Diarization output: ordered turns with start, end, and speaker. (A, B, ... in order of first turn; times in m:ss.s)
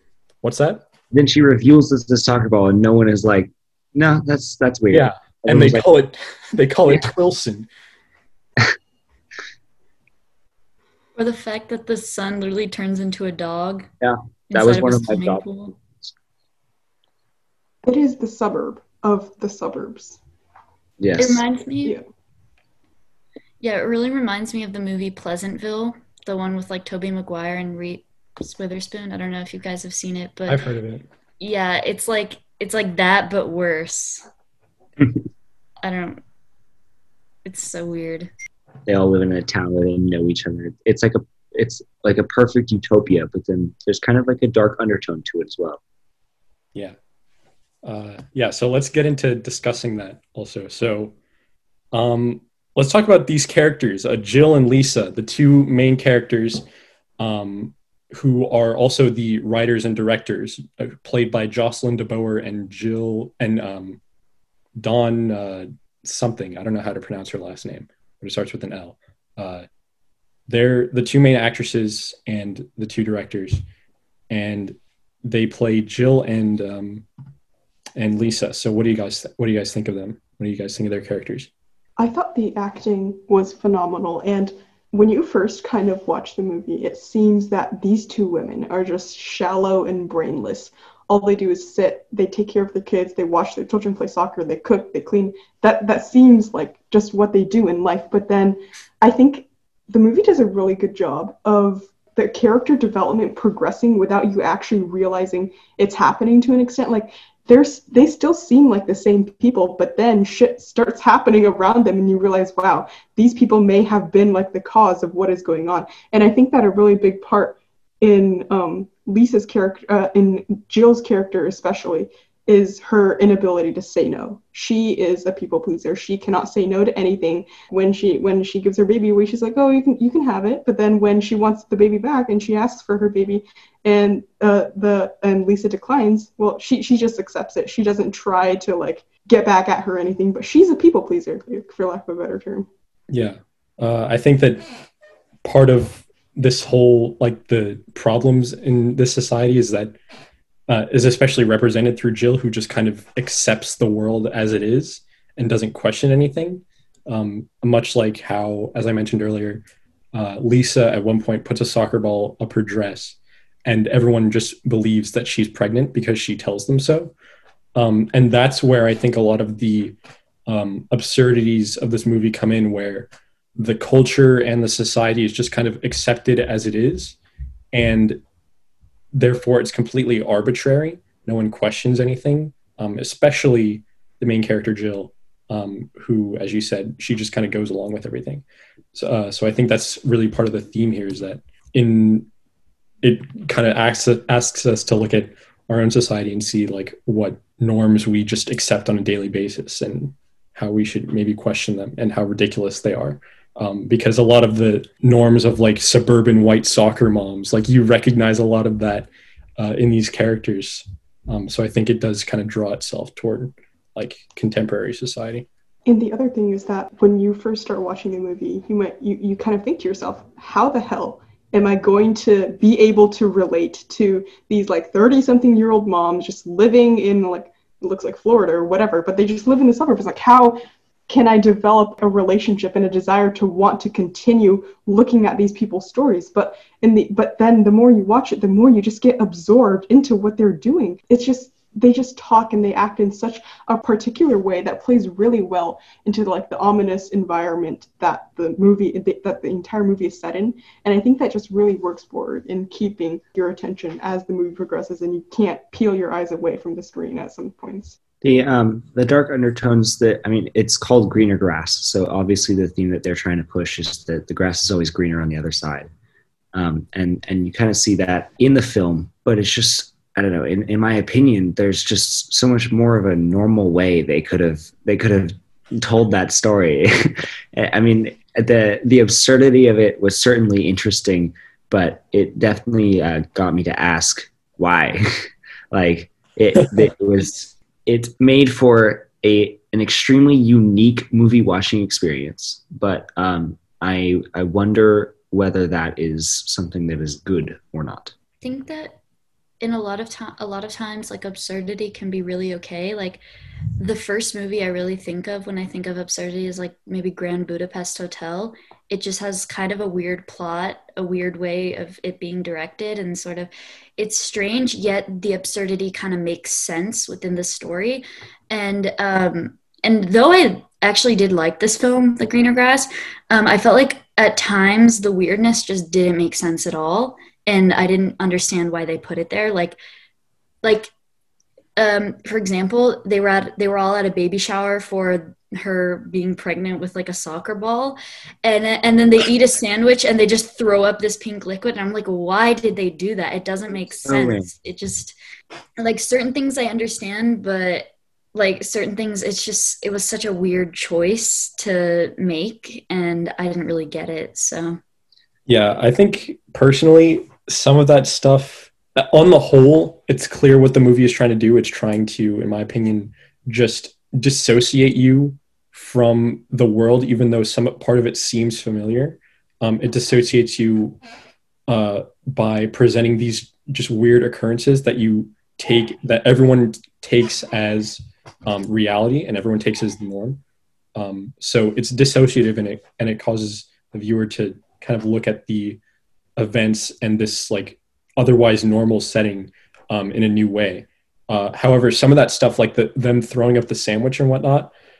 0:00.4-0:00.9 A
0:01.1-0:05.9 B
0:04.9-0:07.7 A
0:11.2-0:13.9 C
0:14.0-0:15.5 B
0:14.5-0:15.8 C
0:17.8-0:20.2 D
0:21.0-0:21.4 B
0:21.2-0:22.0 C
0:23.6-0:30.6 C
0:30.5-0:31.0 A
0:31.4-0:34.2 C
0:35.8-0:36.2 C
0:37.4-0:38.3 C
0:38.9-0:45.8 B
0:47.8-0:51.2 A
0:51.9-0:56.6 A
0:57.2-1:04.0 A
1:04.8-1:09.7 A
1:10.5-1:13.6 A
1:14.3-1:17.1 A
1:18.0-1:21.5 A
1:22.0-2:22.7 D
2:23.1-2:24.6 A
2:25.4-2:30.0 A
2:30.7-2:39.6 A
2:40.1-2:47.1 A
2:47.8-2:50.0 A
2:50.5-2:57.2 A
2:57.7-2:58.2 A
2:59.1-3:12.3 A
3:13.0-3:35.5 A
3:35.9-4:18.0 D
4:18.2-4:25.9 B
4:26.5-4:58.1 B
4:58.4-4:59.0 C
4:59.6-5:03.2 C
5:03.8-5:29.8 C
5:30.6-5:30.9 C
5:31.8-5:45.2 C
5:44.0-5:44.5 B
5:45.8-5:54.8 C
5:55.5-6:11.0 A
6:11.7-6:20.4 A
6:21.0-6:25.8 A
6:26.4-6:34.7 A